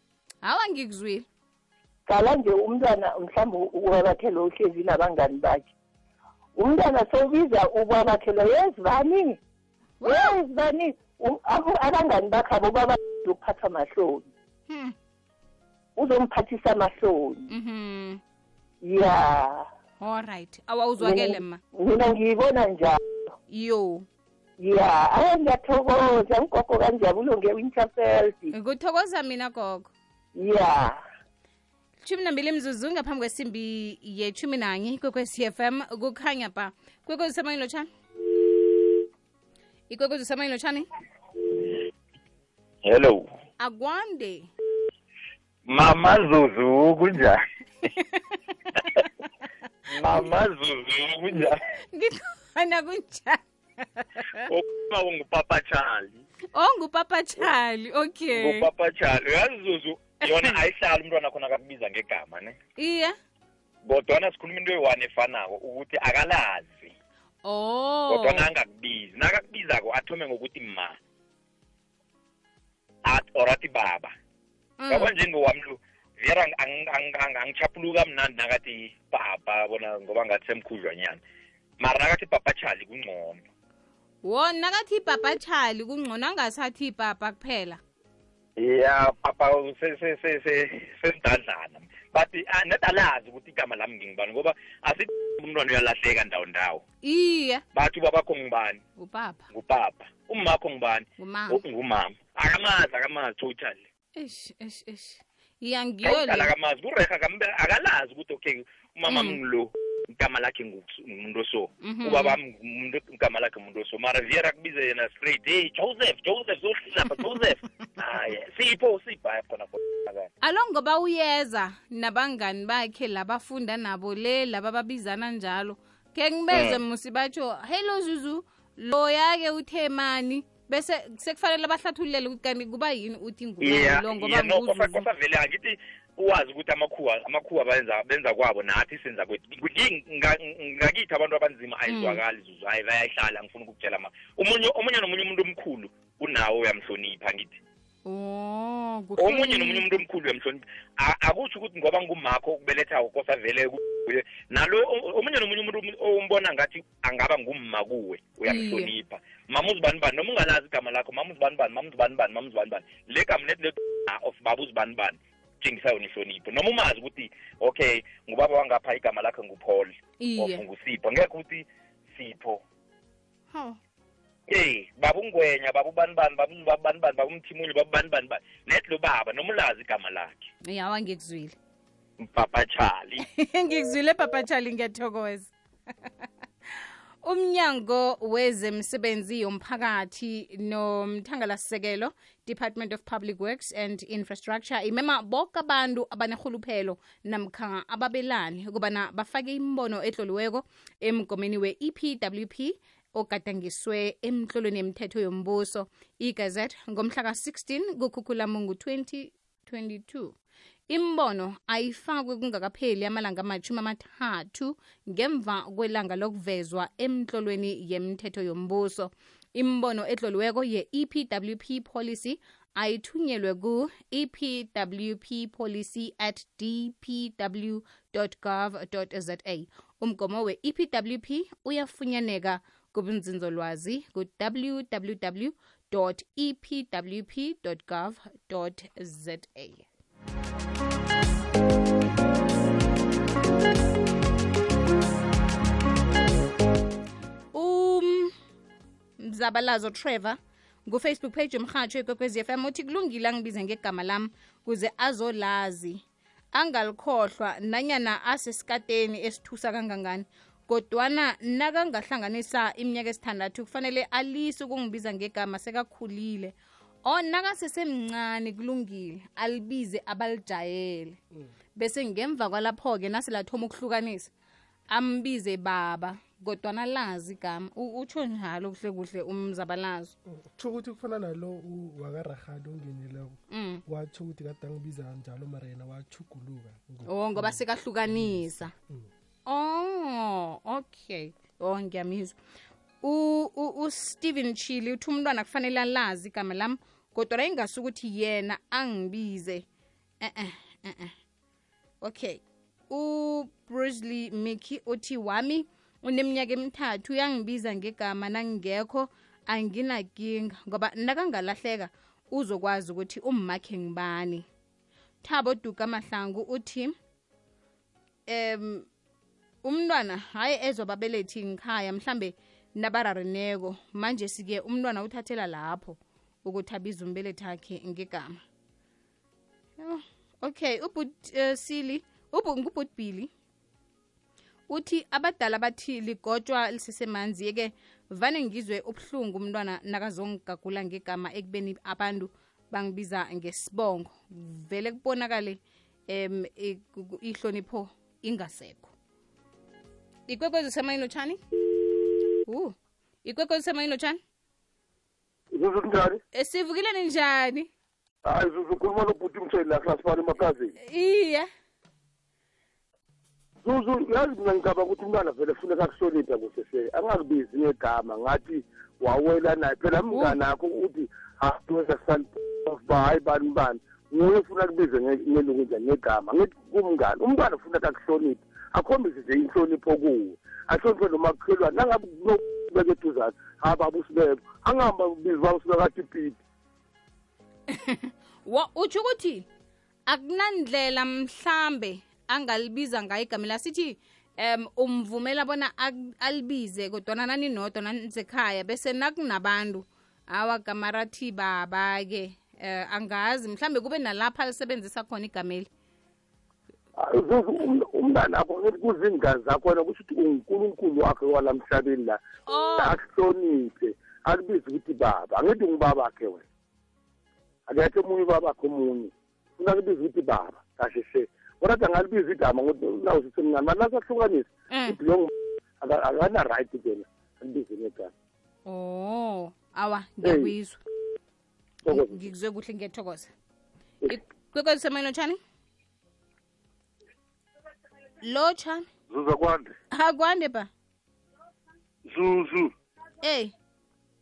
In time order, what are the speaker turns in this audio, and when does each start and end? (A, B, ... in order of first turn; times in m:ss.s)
0:00.4-0:01.3 A
0:02.1-0:05.7 B
0:06.6-0:09.4 B
0:10.0-0:10.4 A
0:10.0-0:14.3 B
0:14.7-0:15.0 A
0:16.0-0:17.5 B
0:17.5-0:18.2 A
0:18.8-0:19.6 B
0:20.0-0:21.6 A
0:21.0-0:23.0 B
0:23.5-0:24.1 A
0:24.6-0:28.5 B
0:28.5-0:29.9 A
0:30.4-0:31.0 B
0:32.0-0:37.9 A
0:39.9-0:40.9 A
0:42.8-0:43.3 C
0:43.6-0:44.5 A
0:45.7-0:47.4 C
0:49.9-0:51.6 C
0:51.9-0:53.4 A
0:54.0-0:54.4 A
0:54.5-0:56.2 C
0:56.5-0:58.7 A
0:58.3-1:02.6 C
1:02.8-1:03.2 A
1:03.8-1:06.9 C
1:07.4-1:08.5 A
1:08.1-1:11.0 C
1:13.1-1:14.1 C
1:14.8-1:15.1 A
1:14.9-1:21.2 C
1:21.8-1:23.4 C
1:24.2-1:27.8 A
1:28.6-1:36.8 C
1:37.0-1:37.6 A
1:37.8-1:38.8 C
1:39.0-1:39.5 A
1:39.5-1:43.8 C
1:41.2-1:41.6 A
1:44.2-1:46.5 A
1:46.0-2:00.3 C
1:49.1-1:49.4 A
1:51.8-1:52.4 A
2:00.4-2:15.0 A
2:06.5-2:06.8 C
2:13.6-2:27.6 C
2:21.9-2:22.2 A
2:28.1-2:29.8 A
2:29.2-2:52.6 C
2:38.5-2:38.9 A
2:50.2-2:50.6 A
2:53.5-2:53.8 A
2:54.5-3:00.5 C
3:00.7-3:01.6 A
3:02.2-3:03.2 C
3:03.4-3:05.5 A
3:07.2-3:30.4 A
3:30.9-3:59.9 A
4:07.5-4:08.3 A
4:09.2-4:16.0 A
4:16.5-4:26.5 A
4:27.0-4:31.2 A
4:31.8-4:34.3 A
4:34.9-4:40.1 A
4:40.6-4:43.4 D
4:43.5-4:43.8 A
4:43.9-4:47.0 D
4:47.1-4:48.7 A
4:49.5-4:52.4 A
4:53.0-4:59.7 A
5:00.2-5:01.1 A
5:02.0-5:14.5 A
5:15.2-5:17.0 A
5:18.3-5:18.9 A
5:19.6-5:28.4 A
5:29.8-5:33.3 A
5:34.7-5:48.9 A
5:50.3-5:51.4 A
5:52.5-5:54.2 A
5:55.5-5:56.2 E
5:56.4-5:57.7 A
5:58.2-6:00.8 E
6:00.8-6:01.5 A
6:03.6-6:26.4 E
6:10.1-6:10.4 A
6:27.7-6:29.4 A
6:30.1-6:45.7 A
6:47.0-6:52.2 E
6:52.5-6:53.0 A
6:52.8-6:56.4 E
6:57.7-7:05.3 E
7:04.7-7:05.0 A
7:05.8-7:08.1 E
7:08.7-7:10.8 A
7:10.2-7:10.6 E
7:11.8-7:12.3 E
7:11.9-7:13.3 A
7:14.1-7:15.4 A
7:18.2-7:18.9 A
7:19.1-7:19.7 E
7:19.9-7:20.7 A
7:22.1-7:22.7 E
7:23.2-7:23.5 A